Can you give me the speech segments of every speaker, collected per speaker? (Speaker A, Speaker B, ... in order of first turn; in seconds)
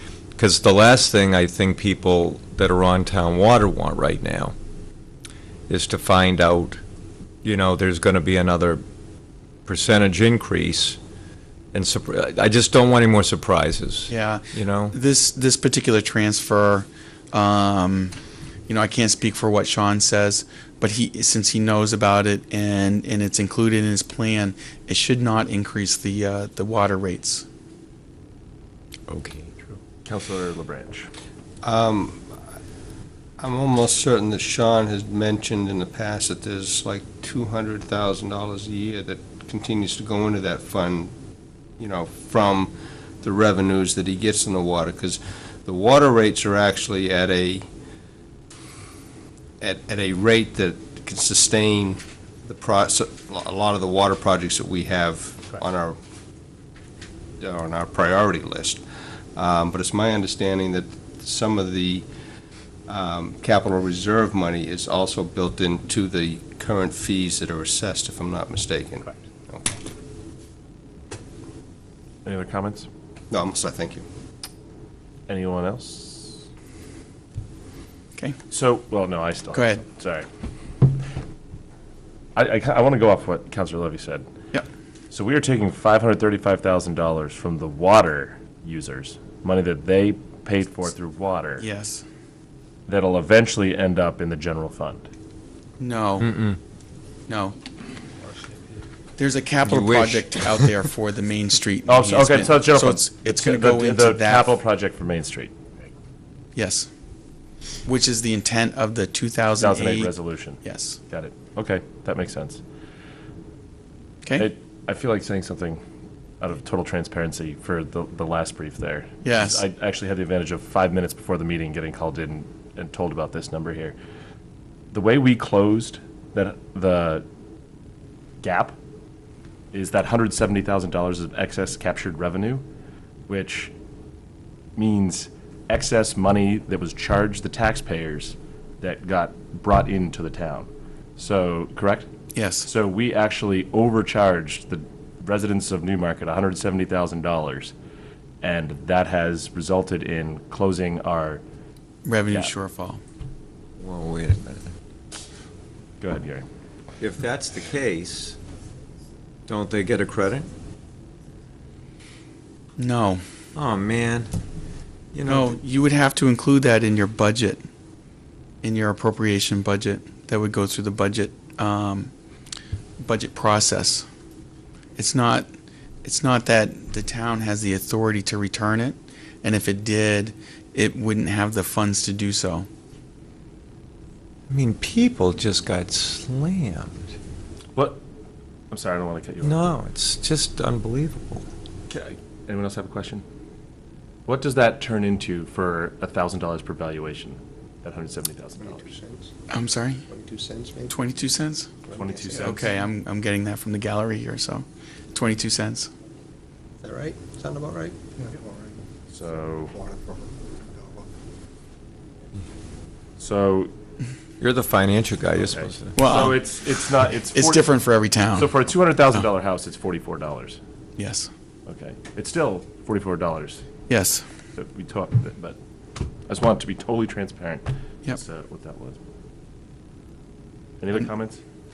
Speaker A: 0.4-4.5, 5.7-6.8, 7.4-8.8, 9.7-11.0, 11.7-14.9, 29.1-29.7, 96.2-96.6, 99.6-100.7, 153.8-154.7, 157.0-158.4, 159.5-160.5, 163.5-164.3, 165.1-165.6, 184.5-187.1, 189.4-191.4, 214.4-216.2
Speaker B: 14.1-18.1, 18.7-27.4, 79.5-79.8, 91.6-92.0, 95.8-96.3, 97.3-97.5, 99.2-104.5, 106.5-106.9, 107.8-110.1, 110.6-111.0, 119.2-119.6, 142.3-142.7, 152.0-153.0, 162.8-163.2, 165.2-167.6, 168.6-172.1, 173.0-174.1, 174.9-175.5, 176.0-182.7, 199.5-200.0, 200.9-201.7, 202.3-205.9, 216.0-216.4, 217.3-218.5, 221.0-221.3, 223.9-224.2
Speaker C: 30.0-31.1, 72.2-72.9, 75.3-76.4, 78.5-80.3, 82.3-84.2, 85.1-91.6, 92.9-95.0, 101.9-105.5, 109.6-110.6, 111.1-112.6, 114.4-115.8, 116.4-124.0, 124.9-127.2, 128.4-128.7, 129.7-132.6, 133.3-133.7, 134.8-142.1, 142.6-147.7, 148.4-151.4, 156.0-156.5, 187.7-188.0, 188.7-189.8, 191.9-193.2, 194.3-198.9, 201.9-202.7, 209.1-209.7, 213.2-213.7, 215.5-217.7, 218.3-220.6, 221.7-223.6, 224.5-225.6, 226.3-229.0, 230.8-231.4
Speaker D: 31.6-32.3, 33.4-41.1, 41.8-47.6, 49.6-56.0, 57.4-58.8, 59.3-62.0, 62.9-69.8, 73.3-74.0, 198.6-199.3, 200.1-200.9, 201.9-202.6, 206.8-208.0